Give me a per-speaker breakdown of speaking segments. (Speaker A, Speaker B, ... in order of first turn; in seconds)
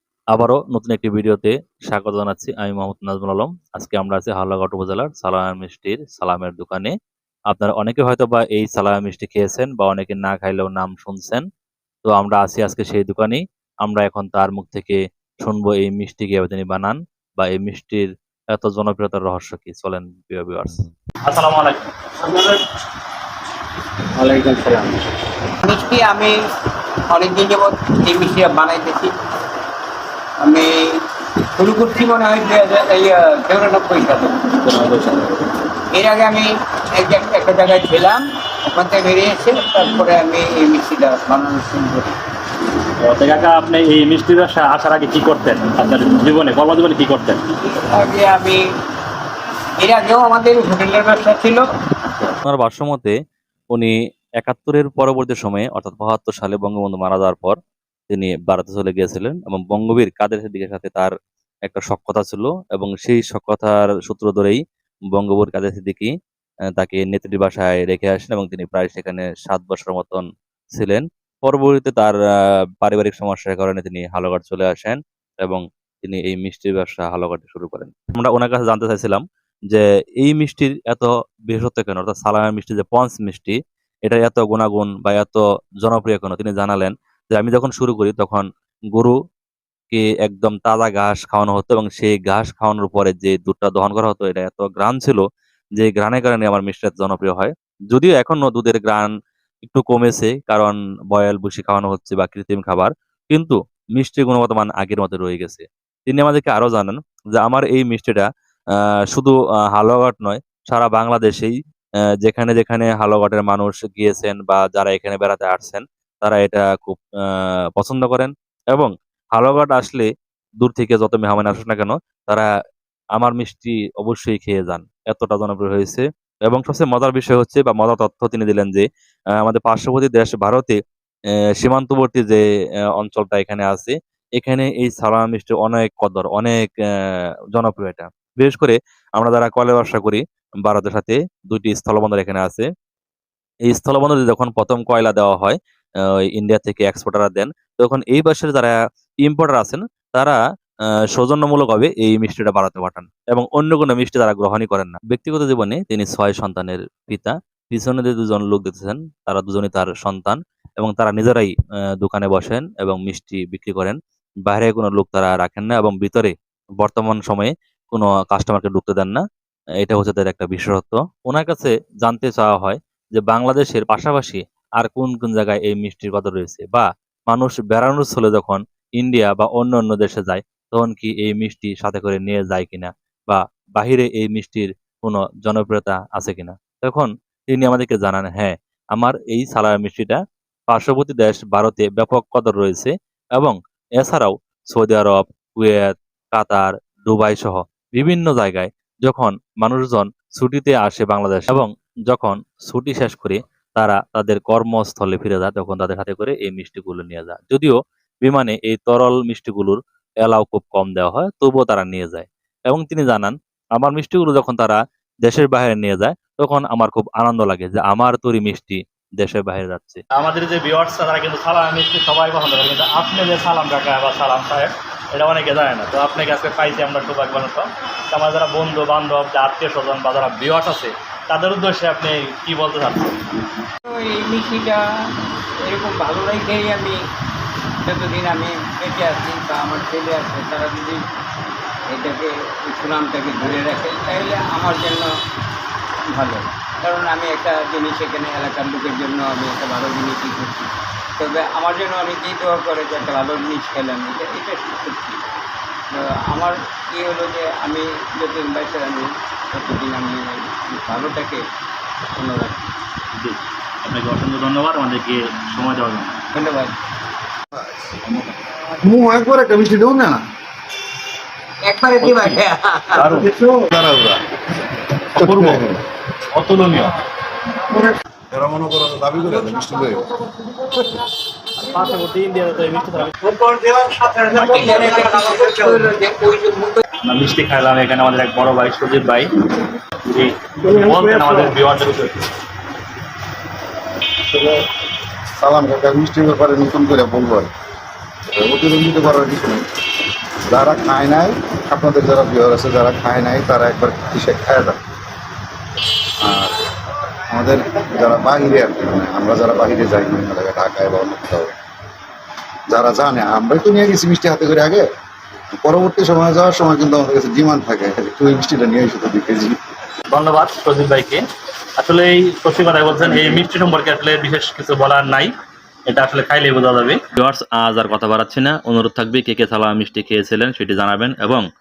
Speaker A: 0.3-6.9, 7.5-11.4, 12.1-20.8, 52.1-53.2, 53.7-57.6, 58.1-61.1, 61.6-64.6, 65.1-66.1, 66.8-72.2, 72.8-89.2, 89.9-95.2, 95.8-99.1, 99.7-108.3, 109.1-111.5, 112.2-120.1, 120.6-122.5, 123.2-128.9, 129.4-130.8, 131.6-132.4, 133.0-136.7, 137.6-142.7, 143.7-145.6, 146.3-150.4, 151.2-169.2, 169.8-220.0, 327.1-331.4
Speaker B: 21.2-21.8, 34.6-35.3, 43.0-47.4, 220.1-233.3, 263.2-266.2, 272.0-272.4, 275.2-275.6, 276.3-276.9, 281.6-283.1, 284.4-285.2, 287.1-289.3, 290.0-292.3, 320.1-321.2, 321.8-325.3, 325.9-327.1
Speaker C: 22.2-22.6, 24.1-25.0, 25.6-26.4, 27.1-29.1, 30.4-30.9, 31.6-34.6, 35.9-42.1, 47.6-48.6, 49.8-51.7, 233.9-234.8, 235.6-237.0, 237.8-241.0, 241.9-245.1, 246.1-255.2, 255.9-261.4, 262.1-262.7, 266.4-266.8, 271.6-273.2, 283.8-286.8
Speaker D: 267.5-267.9, 268.8-270.3, 273.0-274.3, 275.1-275.8, 277.7-280.1, 294.3-294.6, 295.4-297.5, 298.3-299.7, 300.5-304.8, 306.2-306.7, 307.3-311.5, 312.7-314.9, 315.6-319.6